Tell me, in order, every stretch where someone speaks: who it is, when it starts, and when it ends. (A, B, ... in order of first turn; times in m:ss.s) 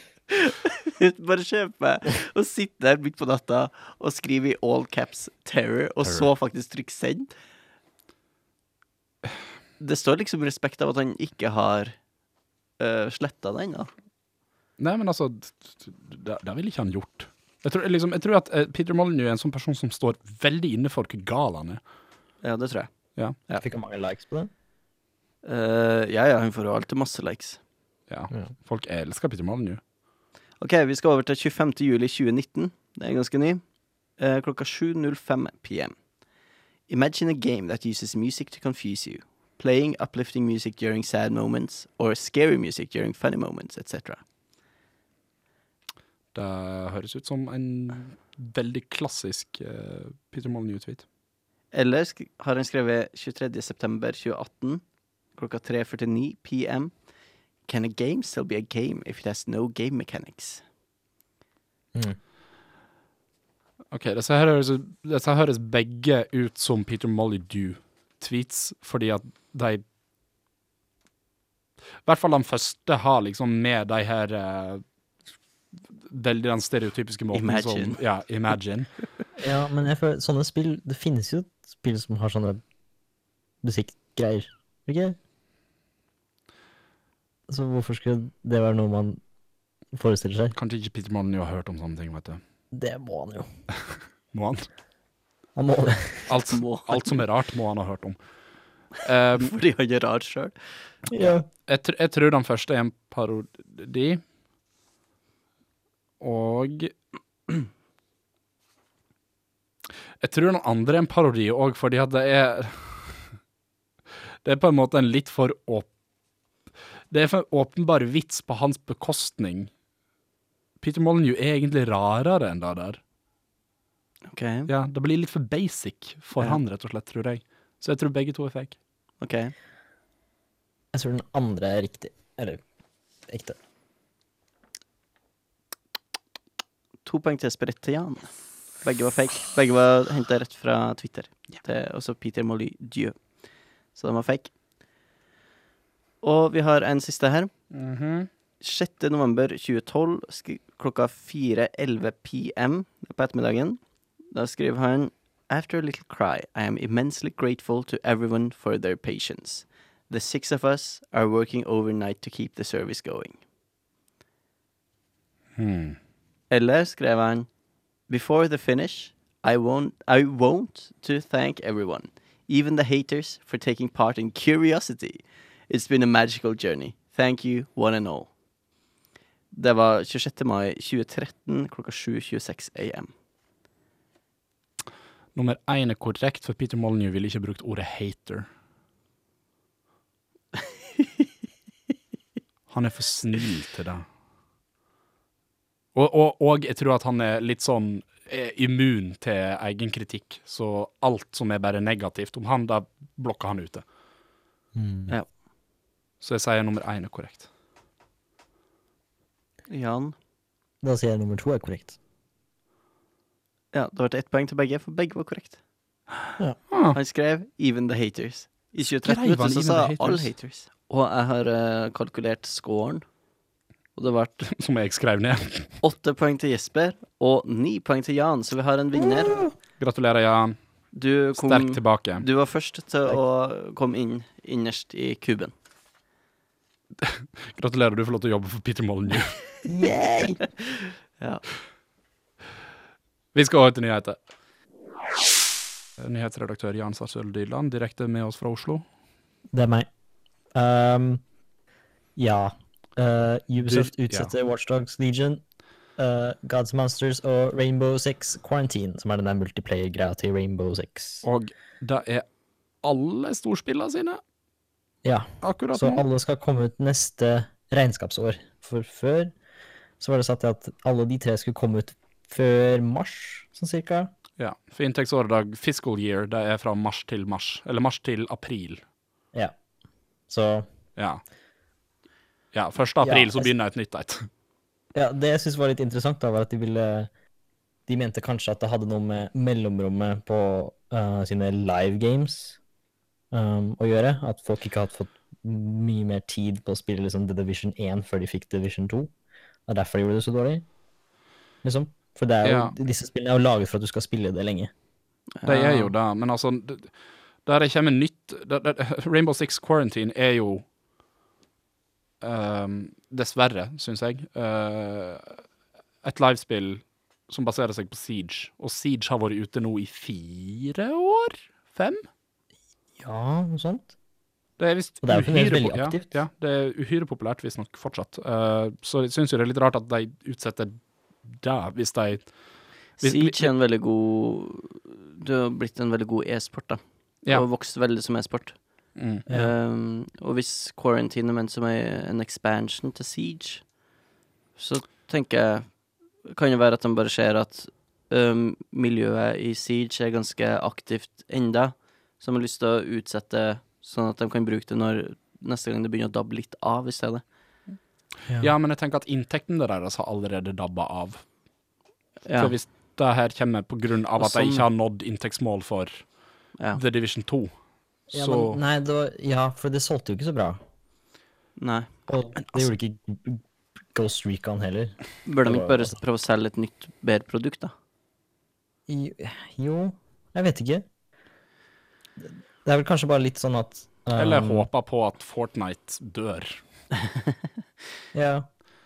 0:00.3-0:07.3 A
0:09.8-0:12.0 A
0:12.8-0:13.9 A
0:14.8-0:21.8 B
0:22.4-0:22.9 A
0:23.2-0:23.6 B
0:23.6-0:24.5 C
0:25.4-0:27.6 A
0:28.1-0:29.8 B
0:30.6-0:33.6 A
0:34.2-0:35.9 A
0:36.9-0:44.2 A
0:46.3-0:51.0 B
0:51.7-0:54.8 A
0:55.4-0:56.9 A
0:57.7-1:00.6 A
1:03.9-1:09.8 B
1:12.0-1:14.8 B
1:16.1-1:18.9 B
1:17.3-1:18.0 A
1:19.4-1:22.6 C
1:23.6-1:25.2 C
1:27.5-1:29.2 C
1:29.9-1:30.6 C
1:30.6-1:32.4 B
1:32.7-1:33.5 C
1:34.3-1:34.6 B
1:35.5-1:36.3 C
1:36.3-1:38.2 B
1:36.3-1:37.1 A
1:39.0-1:39.5 B
1:39.3-1:40.5 A
1:41.1-1:41.5 C
1:41.7-1:44.2 B
1:46.2-1:46.9 B
1:50.2-1:53.2 B
1:54.4-1:55.9 B
1:57.1-1:59.7 B
2:00.8-2:03.0 B
2:04.3-2:04.7 A
2:04.7-2:08.8 B
2:09.2-2:09.5 A
2:10.9-2:12.6 C
2:13.3-2:13.6 C
2:17.0-2:23.1 A
2:23.9-2:24.5 A
2:26.2-2:27.5 A
2:27.7-2:28.3 B
2:28.6-2:33.8 A
2:34.3-2:43.4 A
2:45.6-2:46.0 B
2:46.5-2:47.5 A
2:48.1-2:58.3 A
2:59.5-3:03.1 A
3:05.3-3:08.5 B
3:12.7-3:14.0 B
3:15.9-3:23.8 B
3:24.7-3:25.1 C
3:26.2-3:27.5 B
3:29.7-3:30.1 A
3:30.8-3:32.0 C
3:33.7-3:35.6 A
3:36.7-3:37.0 B
3:36.9-3:43.0 A
3:39.0-3:40.3 B
3:44.0-3:44.5 A
3:44.5-3:45.7 B
3:45.8-3:49.5 A
3:49.0-3:49.5 C
3:49.8-3:50.6 B
3:50.9-3:55.5 A
3:51.3-3:52.2 B
3:57.0-3:59.4 B
3:59.6-4:00.4 C
4:00.7-4:01.4 A
4:03.3-4:04.2 B
4:06.0-4:08.8 B
4:09.5-4:09.9 C
4:10.5-4:11.2 C
4:12.2-4:15.4 C
4:13.6-4:14.3 B
4:16.0-4:21.2 C
4:21.2-4:22.2 B
4:22.8-4:24.2 B
4:25.0-4:29.3 C
4:25.4-4:26.0 B
4:30.0-4:34.1 C
4:34.4-4:38.8 B
4:40.3-4:40.7 C
4:42.5-4:44.2 B
4:43.0-4:43.5 C
4:44.9-4:47.1 C
4:47.9-4:52.6 C
4:53.3-4:59.1 C
4:59.7-5:00.6 C
5:01.6-5:04.7 C
5:02.4-5:02.7 B
5:05.4-5:05.9 A
5:05.4-5:06.9 B
5:07.4-5:10.6 B
5:12.2-5:15.4 B
5:16.0-5:22.1 B
5:23.0-5:23.9 C
5:24.6-5:32.3 B
5:25.0-5:26.0 C
5:33.0-5:33.5 B
5:33.0-5:38.6 A
5:39.0-5:39.2 B
5:39.3-5:43.6 A
5:44.6-5:45.7 A
5:46.3-5:57.2 A
5:58.4-6:01.2 B
6:02.2-6:02.5 A
6:02.4-6:06.0 B
6:04.2-6:04.6 A
6:06.7-6:07.5 B
6:08.1-6:08.6 B
6:08.1-6:10.6 C
6:11.6-6:11.9 A
6:12.1-6:15.9 C
6:15.2-6:17.7 A
6:18.9-6:20.8 C
6:22.6-6:24.7 C
6:24.1-6:26.6 B
6:28.1-6:28.5 C